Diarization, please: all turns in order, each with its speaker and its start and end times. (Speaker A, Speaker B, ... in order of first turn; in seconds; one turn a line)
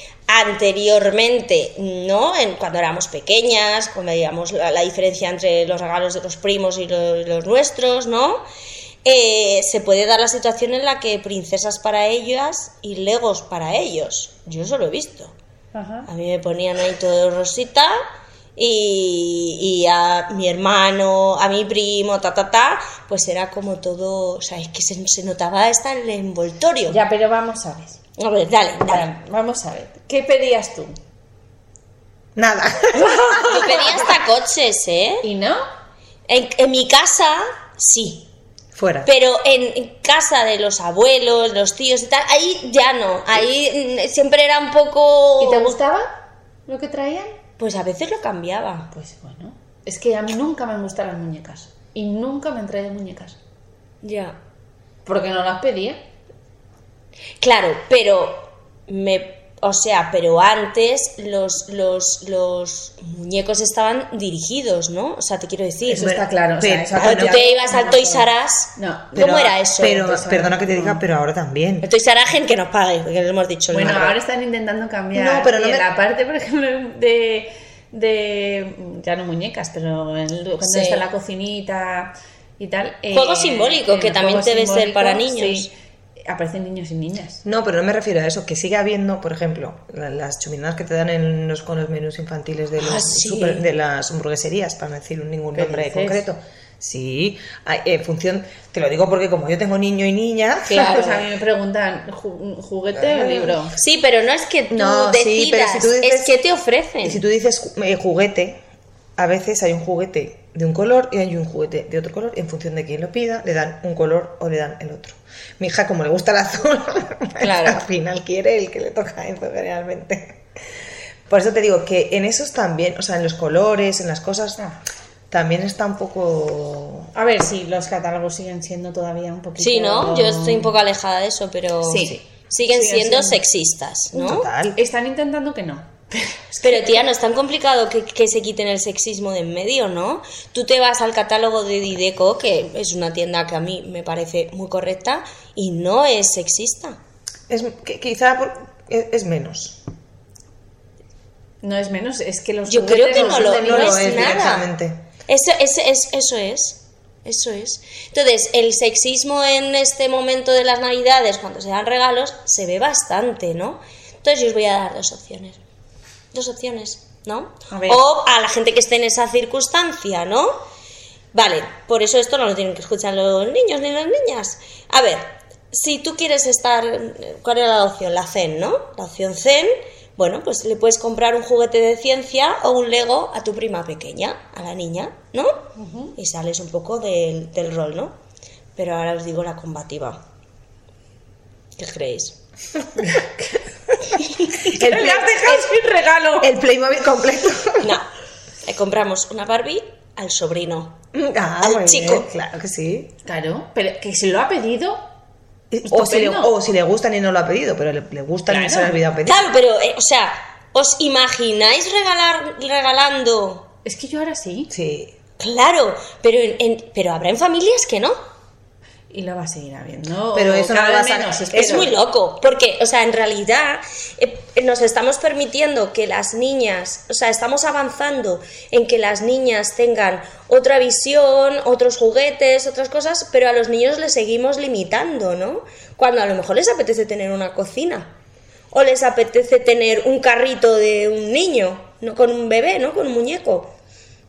Speaker A: 0.3-8.4
Speaker A: 9.0-15.3
Speaker B: 15.7-16.1
Speaker A: 16.1-18.0
Speaker A: 18.6-27.0
Speaker B: 26.9-28.0
Speaker A: 28.2-29.1
Speaker B: 28.9-31.0
Speaker C: 32.4-33.5
Speaker B: 32.9-34.1
Speaker A: 33.3-35.2
Speaker B: 35.2-35.6
Speaker A: 36.3-38.3
Speaker C: 38.8-39.1
Speaker A: 39.0-45.8
Speaker B: 45.4-47.3
Speaker A: 47.6-48.9
Speaker B: 48.9-53.4
Speaker A: 54.0-54.4
Speaker B: 55.0-56.0
Speaker A: 57.4-66.2
Speaker B: 65.9-68.2
Speaker C: 65.9-67.4
Speaker A: 66.9-70.1
Speaker B: 68.8-71.0
Speaker C: 69.2-71.9
Speaker A: 71.8-74.2
Speaker B: 73.7-85.7
Speaker C: 75.1-75.9
Speaker A: 80.6-81.0
Speaker A: 83.1-85.7
Speaker B: 86.2-87.4
Speaker C: 87.4-101.0
Speaker A: 92.8-93.6
Speaker B: 95.5-96.2
Speaker B: 100.7-103.8
Speaker A: 100.7-101.2
Speaker C: 102.9-103.6
Speaker A: 103.8-107.2
Speaker C: 104.7-106.4
Speaker C: 107.0-108.6
Speaker C: 109.2-120.4
Speaker A: 117.4-117.8
Speaker C: 121.3-124.6
Speaker C: 125.3-127.1
Speaker B: 127.1-130.7
Speaker A: 129.6-134.5
Speaker B: 131.8-133.4
Speaker C: 134.1-134.8
Speaker B: 134.8-137.0
Speaker A: 136.6-147.0
Speaker C: 147.5-149.8
Speaker B: 151.6-154.6
Speaker A: 152.7-154.7
Speaker C: 153.1-155.0
Speaker A: 155.3-165.6
Speaker A: 166.3-170.6
Speaker B: 167.7-168.0
Speaker A: 171.3-188.1
Speaker B: 185.8-186.1
Speaker A: 188.8-190.2
Speaker A: 191.8-192.4
Speaker B: 194.5-196.5
Speaker C: 194.8-195.3
Speaker C: 196.4-198.0
Speaker A: 197.8-198.1
Speaker A: 198.6-201.0
Speaker C: 201.1-203.1
Speaker A: 201.6-202.3
Speaker B: 203.2-205.0
Speaker C: 205.7-209.5
Speaker B: 205.8-206.5
Speaker B: 208.5-208.9
Speaker A: 209.2-213.7
Speaker B: 213.8-214.7
Speaker C: 214.7-215.2
Speaker A: 215.4-218.2
Speaker B: 219.1-221.9
Speaker C: 220.3-221.9
Speaker A: 221.5-238.1
Speaker A: 238.7-243.7